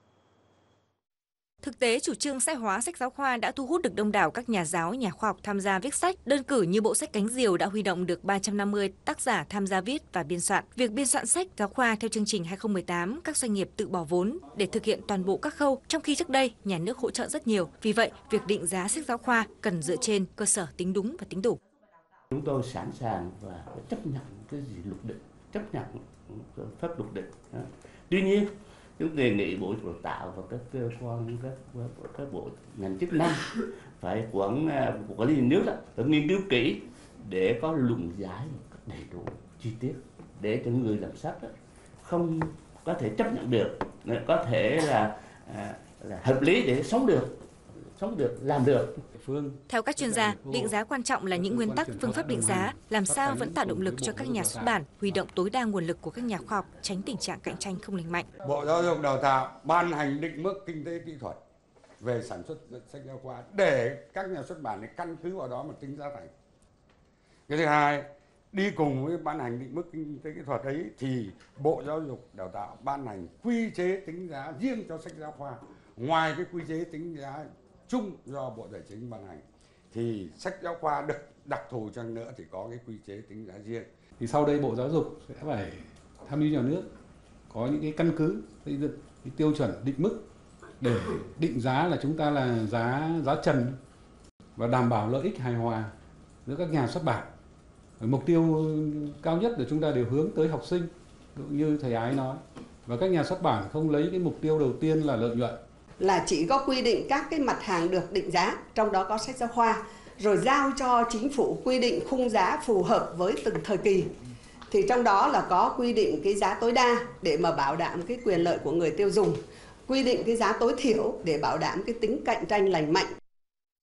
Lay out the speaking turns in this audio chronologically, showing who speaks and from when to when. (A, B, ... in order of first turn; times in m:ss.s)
0:01.6-0:21.6 A
0:22.3-0:49.0 B
0:49.1-0:50.8 C
0:49.7-0:58.2 A
0:51.3-0:55.2 C
0:58.4-1:01.4 D
1:02.0-1:06.3 D
1:07.5-1:23.9 D
1:24.2-1:26.9 C
1:27.5-1:30.2 C
1:30.8-1:33.8 C
1:34.6-1:35.9 C
1:36.4-1:37.3 C
1:38.0-1:45.6 C
1:46.0-1:54.1 E
1:54.7-2:03.1 E